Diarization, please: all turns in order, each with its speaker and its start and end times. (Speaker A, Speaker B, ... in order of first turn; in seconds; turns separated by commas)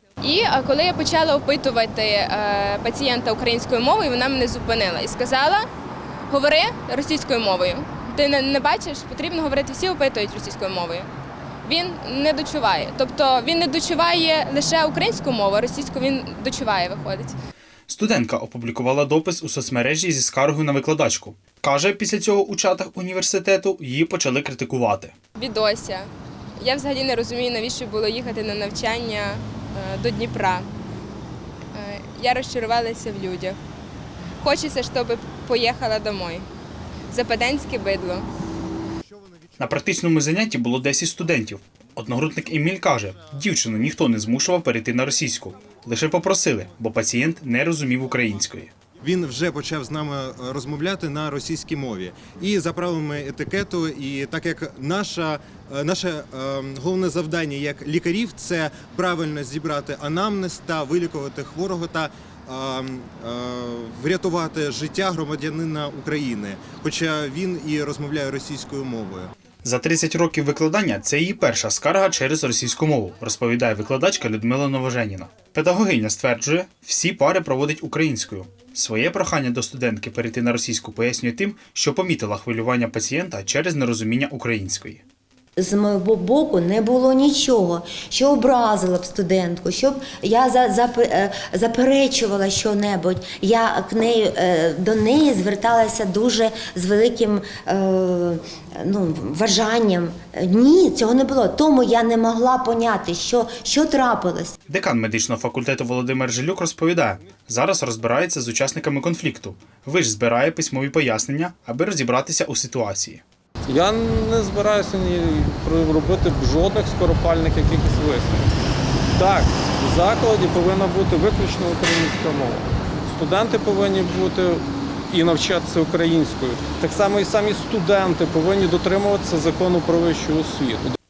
Speaker A: 0.2-5.7, Speaker A: 6.3-11.1, Speaker A: 11.6-17.4, Speaker B: 17.9-25.1, Speaker A: 25.4-30.7, Speaker A: 31.7-33.6, Speaker A: 34.4-36.5, Speaker A: 37.1-38.3, Speaker B: 39.6-48.7, Speaker C: 49.0-69.3, Speaker B: 69.6-85.0, Speaker D: 85.6-104.5, Speaker B: 104.7-113.2, Speaker E: 113.7-118.5, Speaker E: 119.1-130.9